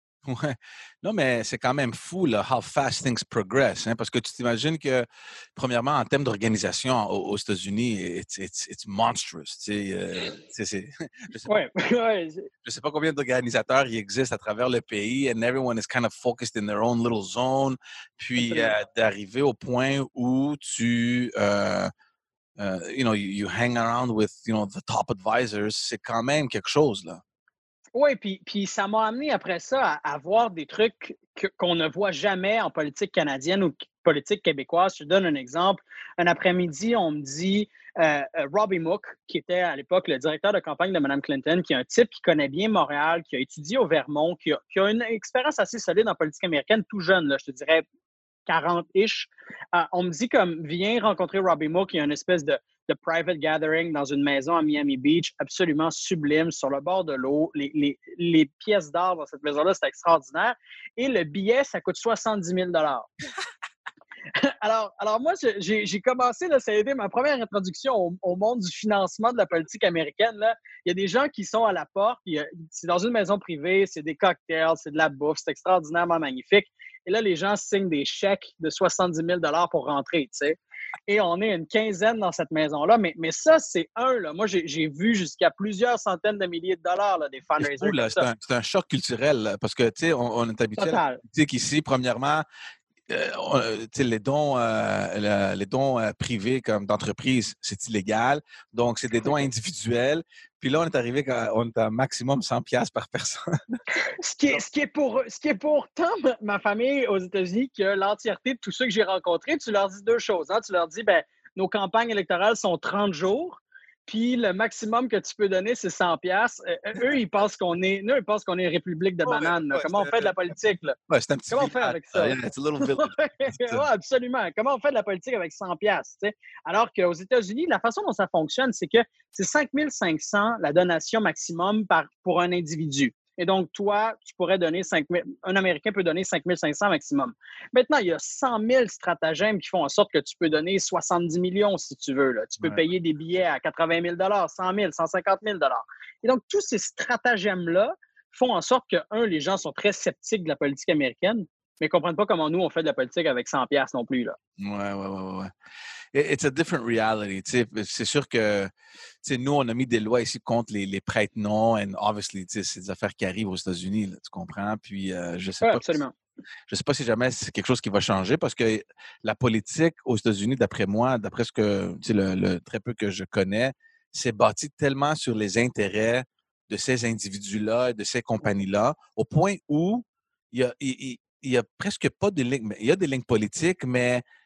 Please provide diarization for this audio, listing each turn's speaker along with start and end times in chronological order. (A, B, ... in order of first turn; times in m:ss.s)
0:00.2-0:11.6 A
0:11.4-0:12.5 B
0:12.6-0:21.9 A
0:18.4-0:18.7 B
0:22.6-0:27.2 A
0:27.9-0:47.8 B
0:48.5-1:03.1 B
1:04.3-1:28.3 B
1:27.6-1:32.4 A
1:30.8-1:31.2 B
1:33.1-1:43.8 A
1:44.2-2:01.0 B
1:59.2-2:00.4 A
2:01.1-2:03.8 A
2:01.5-2:34.4 B
2:34.6-2:35.5 A
2:36.1-2:38.7 A
2:39.2-2:46.0 A
2:45.6-2:46.1 B
2:46.7-3:04.2 A